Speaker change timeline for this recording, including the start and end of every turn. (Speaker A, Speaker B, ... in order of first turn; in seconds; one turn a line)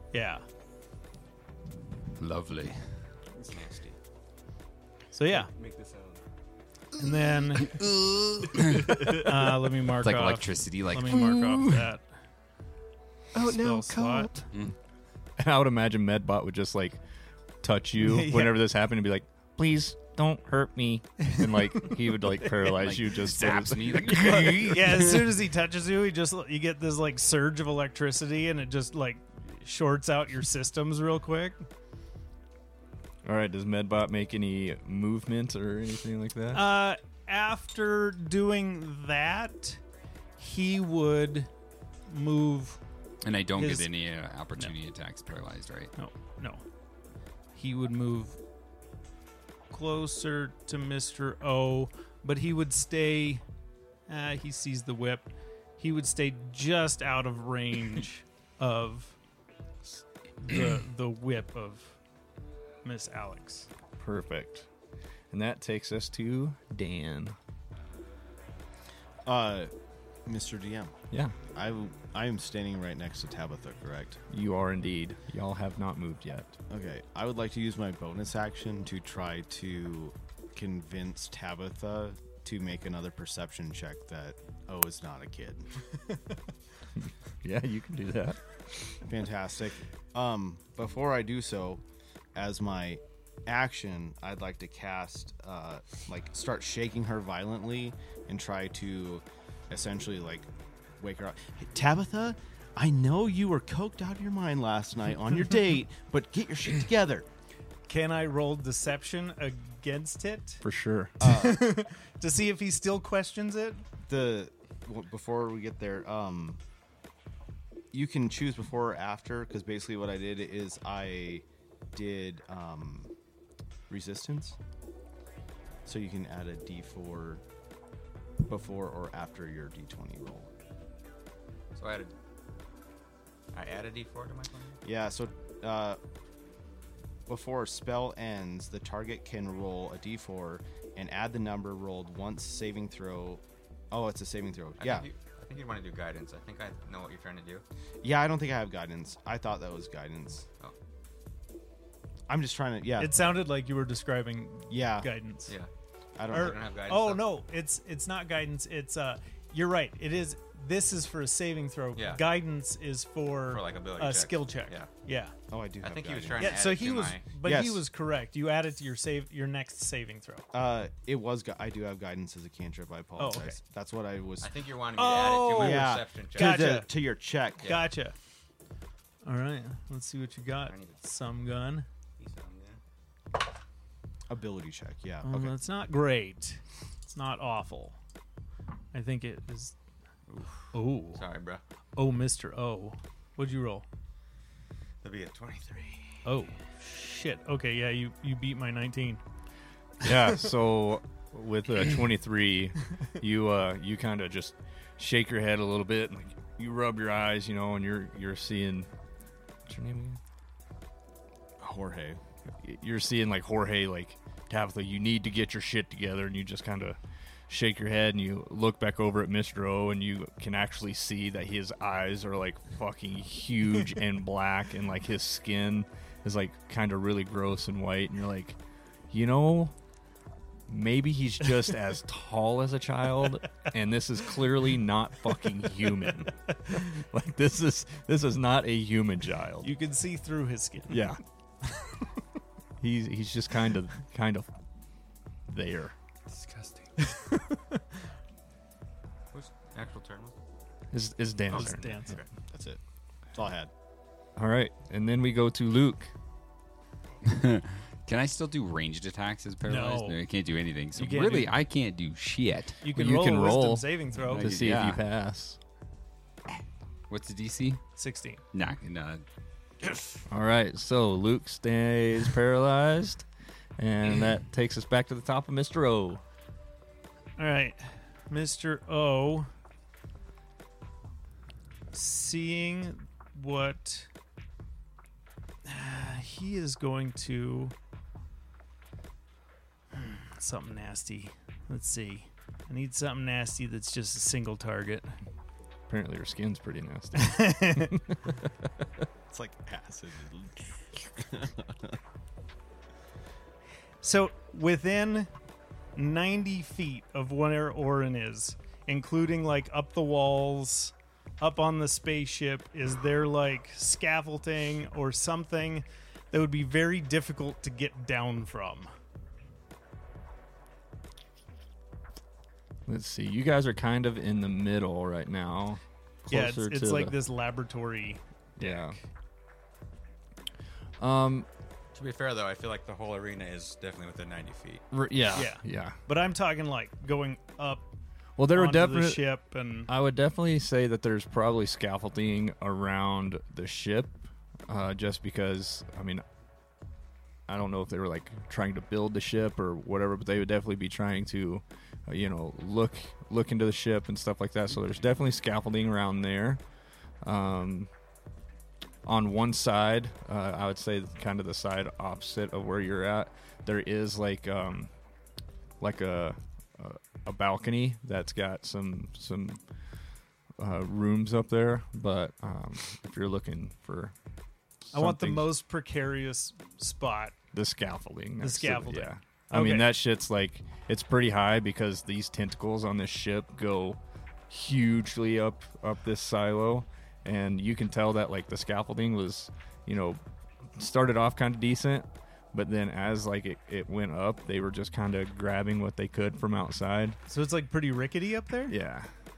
Speaker A: 0.1-0.4
Speaker B: 2.1-2.8
Speaker C: 3.4-4.0
Speaker A: 5.1-5.5
Speaker D: 5.3-6.2
Speaker A: 7.0-7.8
Speaker B: 7.6-9.1
Speaker D: 8.8-9.1
Speaker A: 9.1-12.1
Speaker B: 9.9-11.3
Speaker E: 11.1-11.6
Speaker D: 13.3-14.5
Speaker A: 13.3-14.3
Speaker E: 15.4-17.0
Speaker E: 17.6-24.9
Speaker A: 18.0-18.6
Speaker B: 22.6-25.3
Speaker A: 24.0-31.6
Speaker E: 33.2-36.7
Speaker A: 36.5-39.8
Speaker A: 40.4-41.5
Speaker A: 42.1-42.8
Speaker B: 43.2-45.9
Speaker A: 43.5-43.9
Speaker A: 45.9-46.6
Speaker A: 47.5-48.4
Speaker A: 49.7-53.4
Speaker A: 54.1-59.2
Speaker A: 60.4-62.0
Speaker A: 62.8-63.7
Speaker E: 64.0-64.7
Speaker E: 65.3-67.3
Speaker F: 69.2-69.7
Speaker F: 70.2-70.9
Speaker E: 71.1-71.3
Speaker F: 71.5-74.2
Speaker E: 74.3-76.6
Speaker F: 76.7-85.7
Speaker E: 87.0-88.4
Speaker F: 89.0-91.8
Speaker F: 92.3-100.5
Speaker F: 101.0-107.3
Speaker A: 107.9-110.6
Speaker E: 110.6-111.2
Speaker F: 111.2-111.6
Speaker A: 111.2-113.8
Speaker F: 114.0-116.6
Speaker F: 117.9-123.1
Speaker F: 123.9-124.6
Speaker F: 125.8-127.4
Speaker F: 128.4-130.5
Speaker C: 131.7-132.1
Speaker C: 133.5-134.8
Speaker F: 134.8-136.0
Speaker F: 137.3-145.1
Speaker C: 144.8-147.6
Speaker F: 148.0-150.5
Speaker F: 152.3-153.1
Speaker A: 153.0-155.6
Speaker F: 154.7-155.1
Speaker F: 156.2-156.6
Speaker C: 156.3-157.2
Speaker A: 156.3-165.3
Speaker C: 161.9-162.2
Speaker C: 163.5-164.9
Speaker F: 165.5-166.6
Speaker C: 165.8-167.3
Speaker A: 166.4-170.4
Speaker F: 167.4-167.8
Speaker F: 170.5-174.5
Speaker A: 173.2-173.6
Speaker C: 174.4-176.8
Speaker A: 174.9-176.9
Speaker F: 175.5-177.7
Speaker A: 177.6-178.1
Speaker A: 179.2-181.9
Speaker C: 180.7-181.0
Speaker C: 182.2-182.8
Speaker F: 184.3-185.6
Speaker A: 185.2-188.0
Speaker A: 188.9-189.7
Speaker C: 190.3-191.6
Speaker A: 190.7-191.2
Speaker A: 192.0-193.8
Speaker C: 195.0-196.2
Speaker A: 196.2-199.2
Speaker E: 200.0-208.9
Speaker E: 209.7-210.2
Speaker F: 211.6-212.2
Speaker E: 212.6-228.6
Speaker E: 229.1-229.7
Speaker E: 230.7-239.7
Speaker A: 239.6-241.1
Speaker E: 240.9-241.2
Speaker E: 242.8-244.5
Speaker E: 245.5-245.9
Speaker D: 246.3-246.9
Speaker A: 247.0-247.8
Speaker C: 249.3-250.3
Speaker E: 250.9-252.0
Speaker A: 251.5-252.2
Speaker C: 251.5-252.3
Speaker F: 252.5-252.8
Speaker F: 253.3-253.7
Speaker E: 254.3-256.1
Speaker B: 257.2-262.8
Speaker A: 259.6-260.2
Speaker A: 260.9-261.5
Speaker A: 262.8-264.5
Speaker E: 262.9-265.6
Speaker B: 264.3-265.0
Speaker B: 267.1-267.8
Speaker A: 267.9-268.4
Speaker B: 268.5-269.2
Speaker E: 270.3-273.3
Speaker E: 273.8-276.2
Speaker A: 277.4-279.5
Speaker A: 281.9-284.1
Speaker A: 285.6-287.7
Speaker A: 289.9-295.1
Speaker E: 295.9-298.4
Speaker A: 297.2-297.9
Speaker F: 299.3-302.0
Speaker A: 304.0-305.3
Speaker A: 305.9-318.9
Speaker E: 322.9-327.2
Speaker A: 326.3-329.0
Speaker E: 328.6-329.0
Speaker E: 331.0-331.5
Speaker C: 331.9-334.8
Speaker E: 334.9-336.0
Speaker A: 335.3-337.8
Speaker E: 338.4-339.2
Speaker A: 338.5-339.9
Speaker E: 339.9-346.2
Speaker E: 347.5-356.6
Speaker E: 357.2-357.9
Speaker E: 359.0-364.9
Speaker E: 365.8-369.6
Speaker E: 370.6-374.1
Speaker E: 374.9-375.5
Speaker A: 374.9-377.3
Speaker E: 377.5-384.0
Speaker A: 378.4-379.9
Speaker E: 384.5-390.2
Speaker E: 390.7-397.2
Speaker A: 397.3-398.8
Speaker E: 398.7-399.1